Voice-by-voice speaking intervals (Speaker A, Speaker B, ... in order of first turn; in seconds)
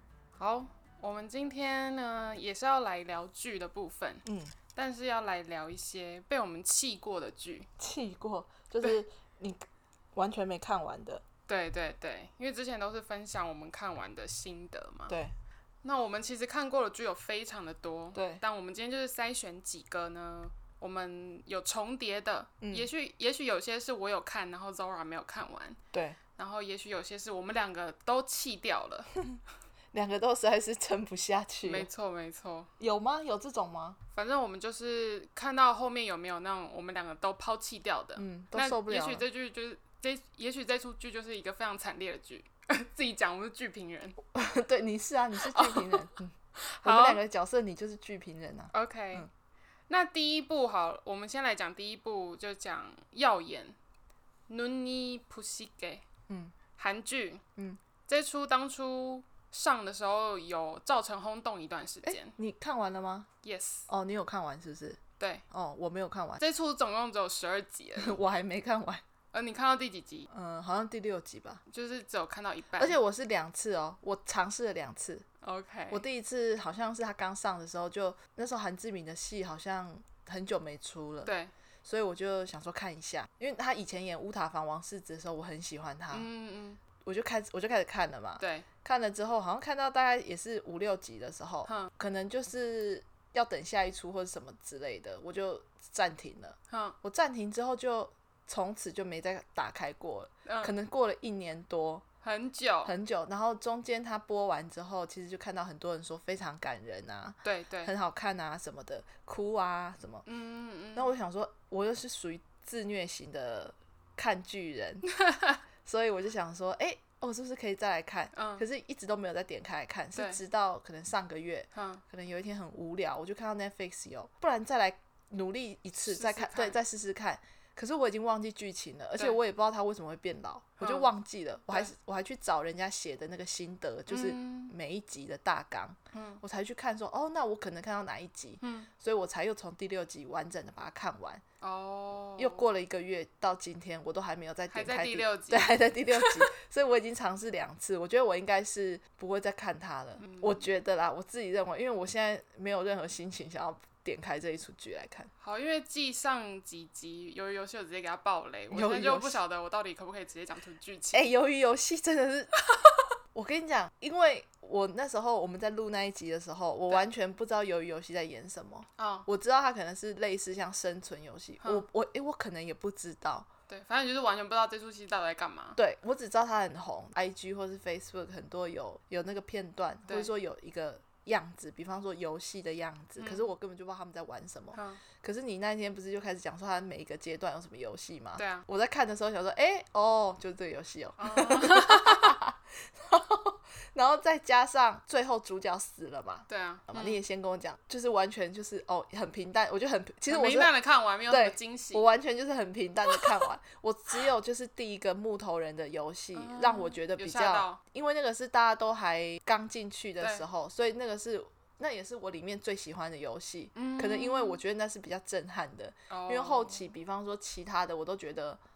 Speaker A: 0.4-4.2, 4.7-7.7, 11.5-15.1, 15.8-25.8, 26.4-29.1, 31.6-32.7, 34.1-44.2, 45.5-47.2, 48.7-49.3, 49.9-53.8, 54.5-56.1, 56.8-57.4, 58.1-62.4, 63.4-63.9, 65.2-65.4, 66.4-68.2, 69.3-70.3, 71.7-73.0, 75.4-76.0, 81.2-81.5, 86.1-86.8, 88.4-88.7, 91.7-91.9, 96.7-97.0, 100.5-100.7, 102.2-102.9, 107.4-107.9, 110.2-111.1, 115.1-115.6, 118.3-118.6, 120.1-120.4, 121.7-122.0, 126.0-126.8, 130.8-131.1, 134.1-134.7, 136.1-136.4, 138.6-138.9, 141.6-142.6, 144.7-146.4, 150.2-150.7, 155.4-161.2, 162.7-163.0, 169.0-169.3, 173.7-175.8, 183.2-183.5, 184.7-185.0, 188.4-188.7, 191.2-192.4, 196.5-197.2, 200.3-202.1, 206.3-207.8, 213.7-214.6, 216.1-216.9
Speaker B: 4.2-4.5, 7.8-9.6, 10.1-11.2, 15.1-15.3, 18.1-18.4, 22.6-22.9, 25.9-26.2, 29.9-31.9, 32.8-34.0, 38.2-39.2, 44.3-49.3, 56.3-56.5, 62.0-63.3, 63.9-65.0, 65.5-66.4, 68.0-69.0, 70.3-71.6, 72.8-75.2, 75.9-81.3, 81.8-86.3, 87.0-102.0, 102.8-110.2, 110.9-115.0, 115.8-141.4, 142.4-155.3, 158.7-159.4, 161.1-162.5, 163.3-173.5, 175.8-200.7, 201.3-218.6